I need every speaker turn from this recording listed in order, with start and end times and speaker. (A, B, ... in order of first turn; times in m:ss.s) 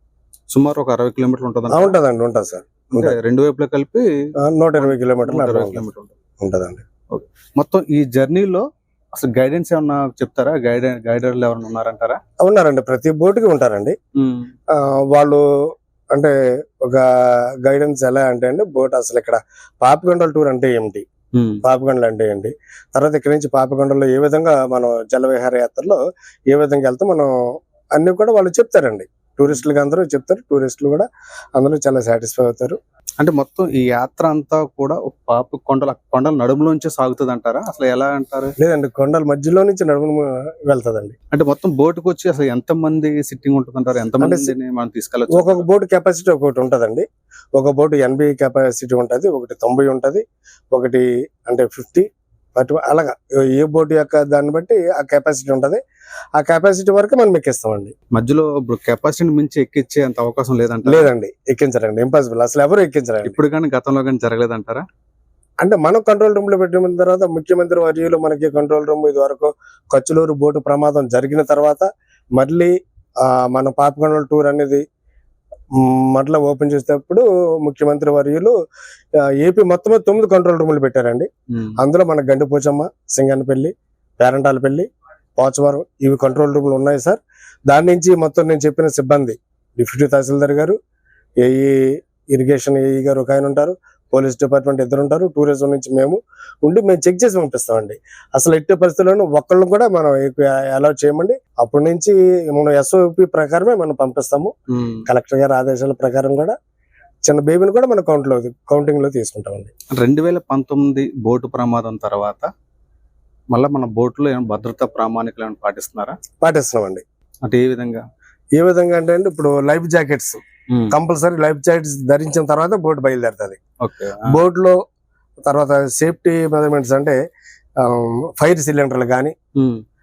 0:00.5-0:02.0 A
0:01.7-0:03.2 B
0:02.9-0:04.0 A
0:04.4-0:05.8 B
0:04.8-0:06.1 A
0:06.4-0:06.8 B
0:07.1-0:12.2 A
0:12.4-0:13.9 B
0:14.7-0:15.4 B
0:16.1-0:17.0 B
0:17.6-0:21.0 B
0:21.4-0:21.6 A
0:21.6-0:26.0 B
0:26.5-0:27.3 B
0:28.0-0:32.8 B
0:33.2-0:38.5 A
0:38.6-0:41.1 B
0:41.3-0:45.6 A
0:44.2-0:44.5 B
0:45.3-0:52.0 B
0:52.6-0:55.8 B
0:56.4-0:57.9 B
0:58.1-1:01.1 A
1:00.8-1:03.4 B
1:03.2-1:04.8 A
1:05.6-1:12.7 B
1:13.2-1:14.8 B
1:15.8-1:18.5 B
1:19.4-1:30.8 B
1:31.4-1:44.5 B
1:44.7-1:45.0 A
1:45.0-1:46.5 B
1:47.2-1:49.7 B
1:50.0-1:52.5 A
1:53.5-1:56.2 A
1:56.4-1:57.0 B
1:57.4-1:58.0 A
1:58.5-2:03.6 B
2:03.8-2:04.3 A
2:04.2-2:04.8 B
2:05.4-2:07.1 B
2:07.8-2:09.3 B